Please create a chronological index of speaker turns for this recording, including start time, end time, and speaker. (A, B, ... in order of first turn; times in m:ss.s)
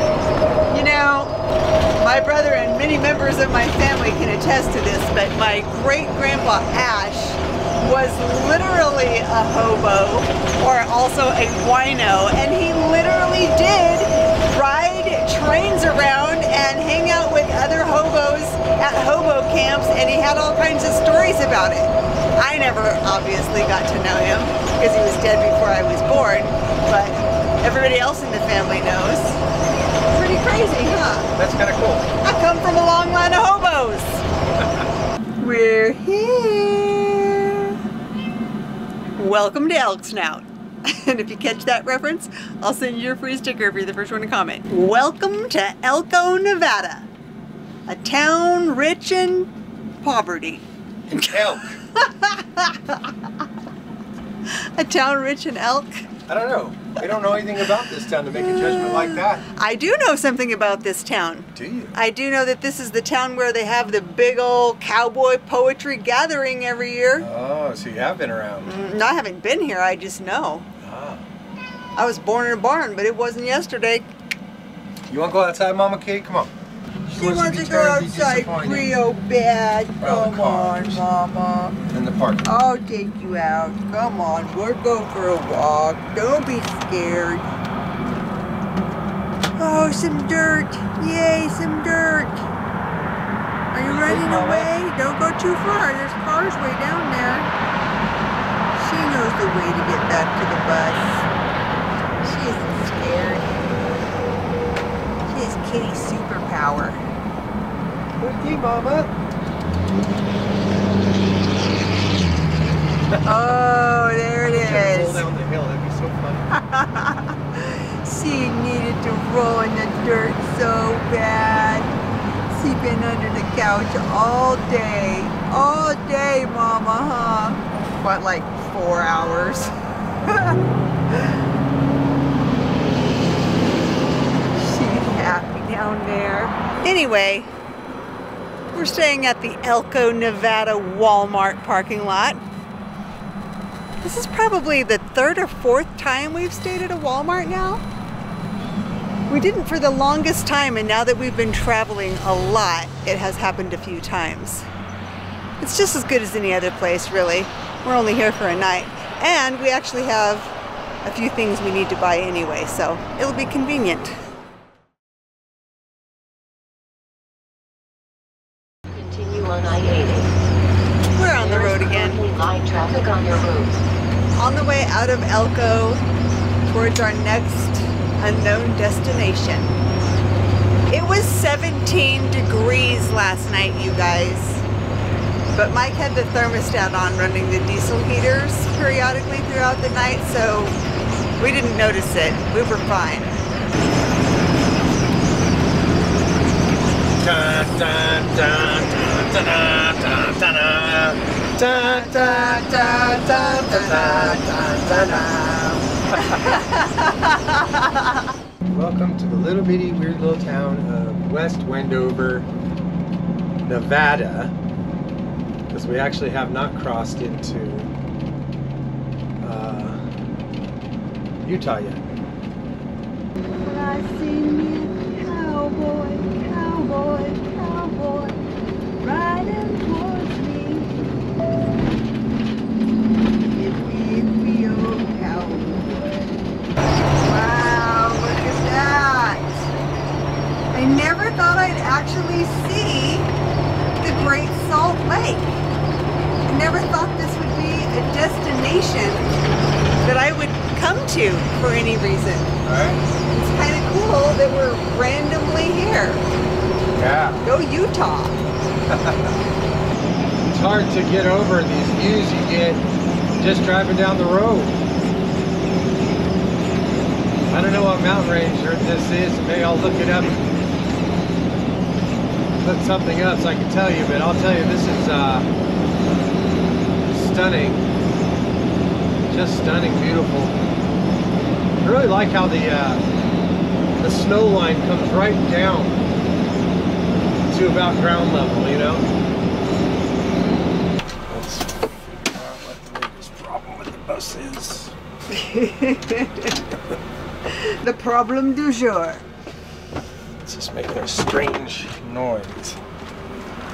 0:00.7-0:01.3 A
0:02.0-0:29.4 A
0:30.1-0:31.3 A
0:31.4-0:32.1 B
0:32.2-0:34.2 A
0:34.6-0:34.9 B
0:35.4-0:37.8 A
0:39.2-0:47.1 A
0:47.9-0:49.5 A
0:50.0-0:53.2 A
0:51.1-0:51.8 B
0:54.4-0:56.1 A
0:56.3-0:59.4 B
0:58.5-1:07.3 A
1:01.6-1:02.0 B
1:07.2-1:08.8 B
1:08.6-1:10.7 A
1:10.8-1:11.2 B
1:12.0-1:14.1 A
1:15.1-1:16.5 B
1:17.1-1:18.9 B
1:17.1-1:21.8 A
1:20.0-1:21.0 B
1:21.9-1:22.5 B
1:22.4-1:27.5 A
1:29.6-1:32.4 A
1:33.7-1:37.5 A
1:33.8-1:34.7 B
1:38.8-1:41.3 A
1:42.2-1:43.6 A
1:45.2-1:47.0 A
1:48.2-1:49.1 B
1:53.1-1:53.4 B
1:53.2-1:55.2 A
1:54.5-1:56.5 B
1:56.5-2:01.9 A
2:02.5-2:09.7 A
2:10.3-2:10.6 A
2:11.1-2:11.4 A
2:14.6-2:17.5 A
2:18.7-2:22.4 A
2:24.0-2:27.8 A
2:29.3-2:34.7 A
2:35.6-2:40.5 A
2:41.0-2:44.2 A
2:48.9-2:50.3 C
2:51.1-2:52.2 A
2:51.4-2:53.8 C
2:54.4-2:56.0 A
2:56.7-2:59.8 A
3:00.9-3:04.6 A
3:05.5-3:10.8 A
3:11.4-3:13.3 A
3:17.2-3:25.3 B
3:21.7-3:28.3 A
3:26.1-3:26.6 B
3:28.7-3:32.5 B
3:33.7-3:34.5 B
3:35.7-3:37.9 B
3:39.4-3:40.0 B
3:41.4-3:42.0 B
3:43.6-3:48.4 A
3:49.0-3:50.9 A
3:53.5-3:56.3 A
3:57.2-3:59.7 A
4:00.7-4:03.3 A
4:04.0-4:05.6 A
4:06.4-4:09.3 A
4:10.0-4:12.5 A
4:12.6-4:13.0 B
4:13.3-4:16.3 A
4:17.0-4:17.4 B
4:17.4-4:18.4 A
4:18.9-4:19.4 B
4:20.5-4:22.8 B
4:23.4-4:24.8 B
4:27.5-4:30.5 B
4:32.6-4:35.5 B
4:37.0-4:37.9 B
4:39.3-4:40.6 B
4:41.8-4:43.0 B
4:44.0-4:46.0 B
4:47.5-4:49.0 B
4:51.3-4:54.9 B
4:55.3-4:56.6 A
4:57.5-4:59.2 A
5:00.4-5:02.8 B